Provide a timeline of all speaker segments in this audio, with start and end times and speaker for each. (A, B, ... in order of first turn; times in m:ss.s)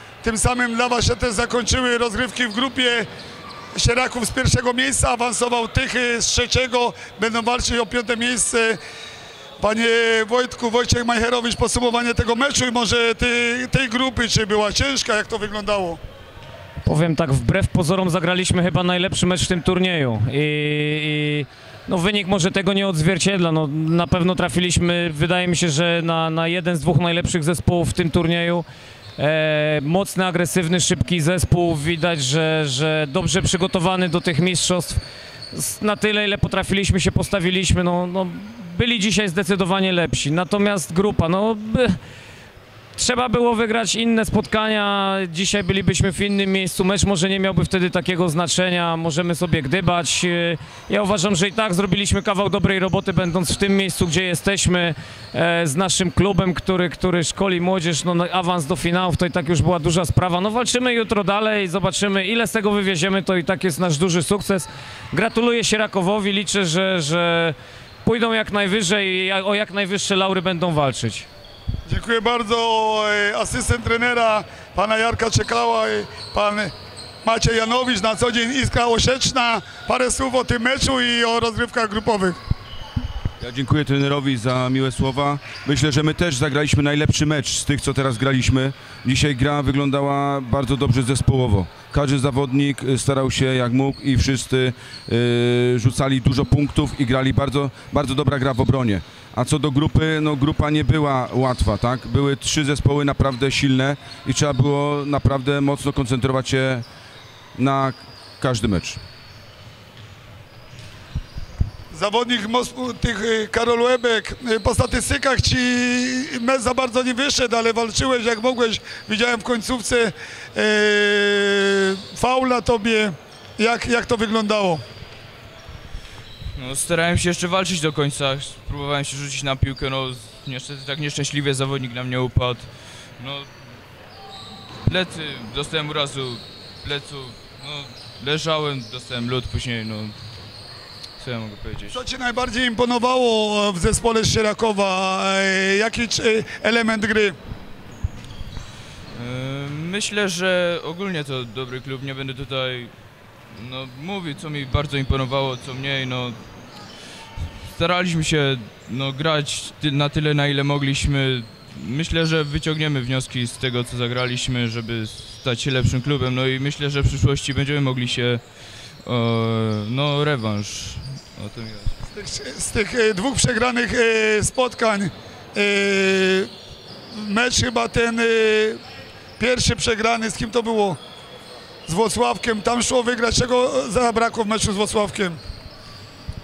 0:00.2-0:03.1 A
0:03.7-0:08.8 A
0:09.6-0:16.0 A
0:16.8-0:28.6 B
0:29.2-0:35.0 B
0:35.5-0:42.0 B
0:43.0-1:11.3 B
1:11.8-1:16.7 A
1:17.2-1:22.4 A
1:23.4-1:46.8 C
1:47.6-1:49.0 C
1:51.9-2:04.8 A
2:06.6-2:13.5 D
2:14.8-2:20.1 D
2:21.2-2:22.0 D
2:21.9-2:27.4 A
2:29.1-2:32.9 D
2:33.4-2:36.4 D
2:37.6-2:51.9 D
2:52.1-2:56.5 A
2:57.1-2:58.8 A
2:59.4-3:01.0 A
3:01.8-3:05.4 A